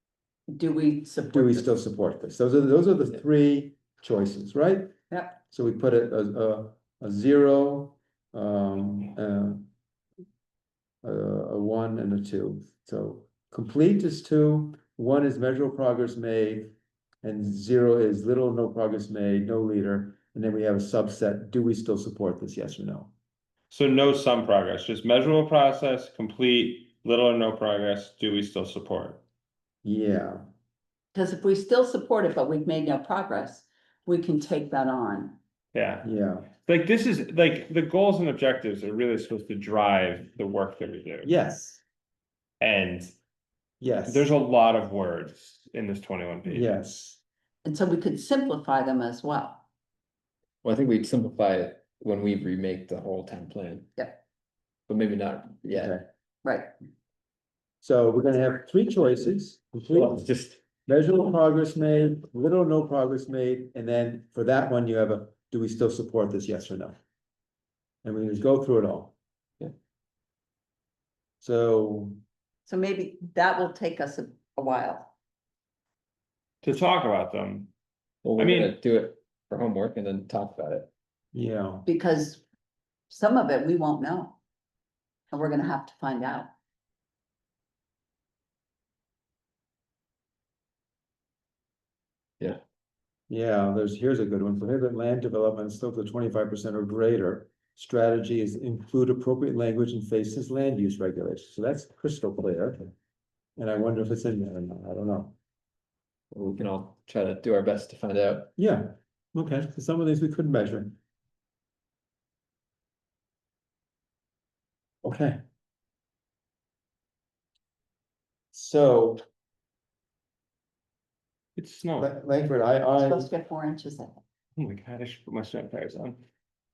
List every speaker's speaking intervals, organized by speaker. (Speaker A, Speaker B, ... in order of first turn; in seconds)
Speaker A: 0.5-1.6, 5.1-5.4, 31.1-35.4, 47.6-49.6, 56.4-56.7, 72.7-75.1, 81.8-82.4, 83.1-84.4, 85.3-86.5, 123.0-124.2
Speaker B: 1.3-4.9, 5.5-9.7, 11.0-23.1, 29.8-30.4, 36.0-36.5, 41.2-41.8, 43.8-44.3, 46.5-47.2, 55.7-56.0, 57.8-60.2, 60.9-67.0, 68.0-69.1, 71.4-72.2, 81.3-81.8, 93.3-102.9, 103.6-105.3, 108.6-111.0, 115.0-115.4, 118.5-119.2, 122.0-123.3
Speaker C: 23.7-29.2, 35.7-36.1, 36.6-41.3, 42.6-43.1, 44.1-46.7, 76.6-77.7, 78.4-78.8, 121.6-122.1, 124.6-126.2
Speaker D: 50.6-53.9, 54.9-56.0, 59.9-60.6, 78.2-80.9, 106.3-108.5